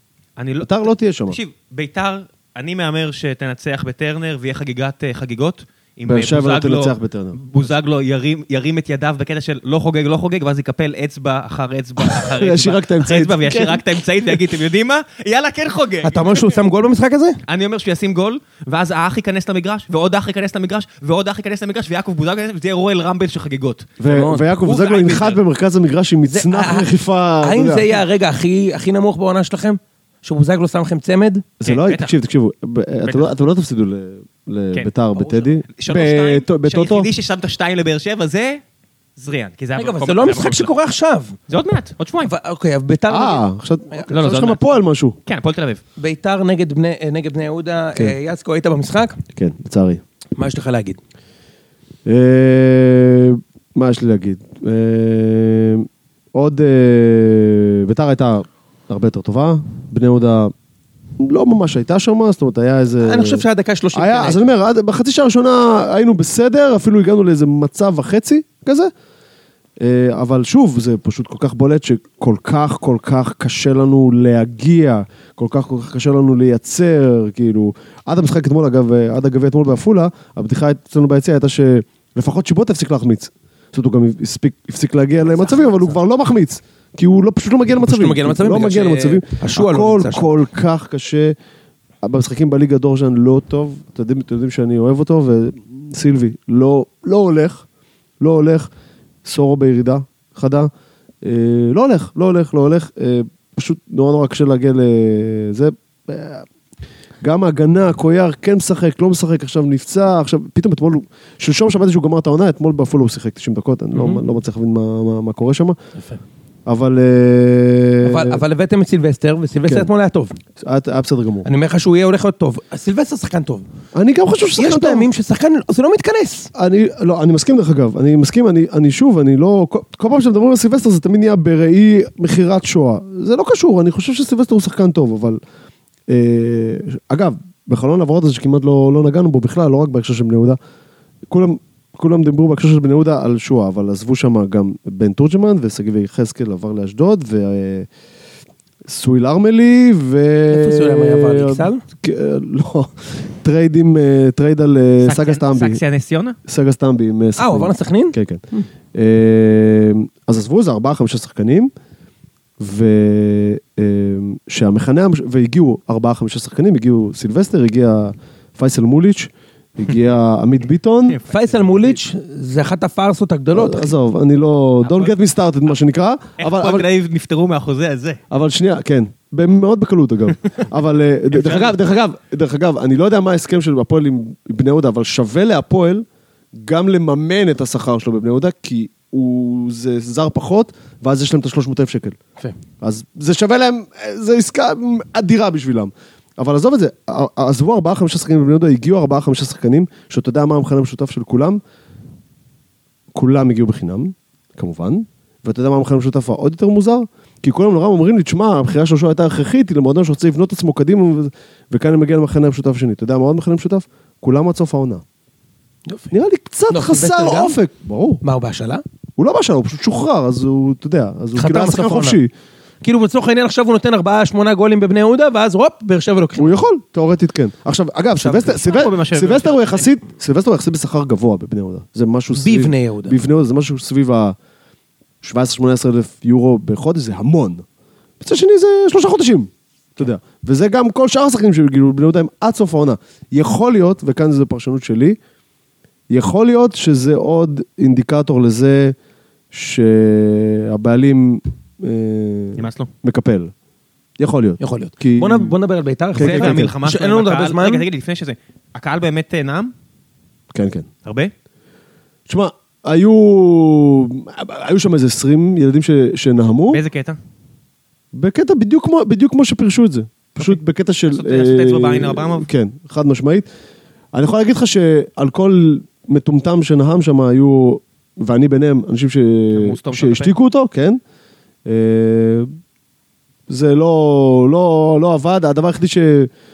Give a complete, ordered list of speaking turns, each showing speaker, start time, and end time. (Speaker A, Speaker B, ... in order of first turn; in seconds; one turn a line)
Speaker A: 0.4-16.6
Speaker B: 0.6-1.4
Speaker B: 6.1-7.7
Speaker B: 12.0-13.8
Speaker C: 16.0-17.4
Speaker A: 17.5-23.9
Speaker B: 24.0-28.0
Speaker C: 24.1-24.5
Speaker A: 24.6-25.4
Speaker C: 26.3-31.4
Speaker B: 31.6-37.1
Speaker A: 31.6-32.1
Speaker A: 33.0-33.3
Speaker A: 34.7-38.6
Speaker A: 39.2-40.7
Speaker C: 39.8-41.4
Speaker A: 41.5-42.3
Speaker C: 42.2-44.1
Speaker B: 43.1-45.1
Speaker A: 44.1-45.8
Speaker C: 46.0-49.2
Speaker B: 49.3-50.0
Speaker C: 50.4-51.0
Speaker B: 52.0-60.5
Speaker B: 61.2-68.9
Speaker C: 63.0-64.5
Speaker B: 69.8-91.3
Speaker C: 85.3-85.8
Speaker C: 87.8-90.3
Speaker B: 92.0-97.6
Speaker B: 98.2-98.7
Speaker B: 99.2-100.7
Speaker B: 101.2-106.5
Speaker B: 107.2-115.8
Speaker B: 116.7-118.4
Speaker C: 118.0-120.4
Speaker B: 120.5-121.5
Speaker C: 121.4-123.6
Speaker B: 123.9-125.1
Speaker C: 124.6-126.5
Speaker B: 126.5-135.4
Speaker B: 136.1-140.6
Speaker B: 141.3-147.9
Speaker B: 148.8-155.8
Speaker C: 150.5-151.8
Speaker A: 155.0-156.4
Speaker B: 156.5-161.7
Speaker C: 157.4-158.6
Speaker B: 162.6-171.2
Speaker A: 171.1-171.9
Speaker C: 171.3-173.9
Speaker B: 173.5-176.8
Speaker A: 174.8-175.1
Speaker A: 176.4-178.2
Speaker B: 178.3-192.2
Speaker A: 181.3-181.8
Speaker B: 192.8-201.6
Speaker B: 203.1-215.0
Speaker C: 215.9-216.1
Speaker B: 216.1-218.2
Speaker C: 216.7-217.6
Speaker C: 218.2-218.8
Speaker B: 219.2-222.3
Speaker C: 221.3-222.2
Speaker C: 222.8-226.6
Speaker B: 226.4-234.4
Speaker C: 228.2-228.6
Speaker A: 228.4-229.9
Speaker C: 232.3-233.2
Speaker B: 235.2-237.6
Speaker B: 238.2-245.2
Speaker B: 246.1-248.9
Speaker B: 249.5-253.5
Speaker A: 252.6-252.9
Speaker B: 254.2-255.5
Speaker C: 254.6-257.8
Speaker B: 256.1-256.7
Speaker A: 256.1-259.7
Speaker B: 260.5-260.9
Speaker A: 261.0-261.3
Speaker B: 262.3-266.8
Speaker A: 266.7-267.2
Speaker B: 268.1-273.5
Speaker A: 271.1-272.5
Speaker B: 274.1-281.0
Speaker A: 279.5-280.3
Speaker B: 281.6-282.5
Speaker B: 283.5-286.3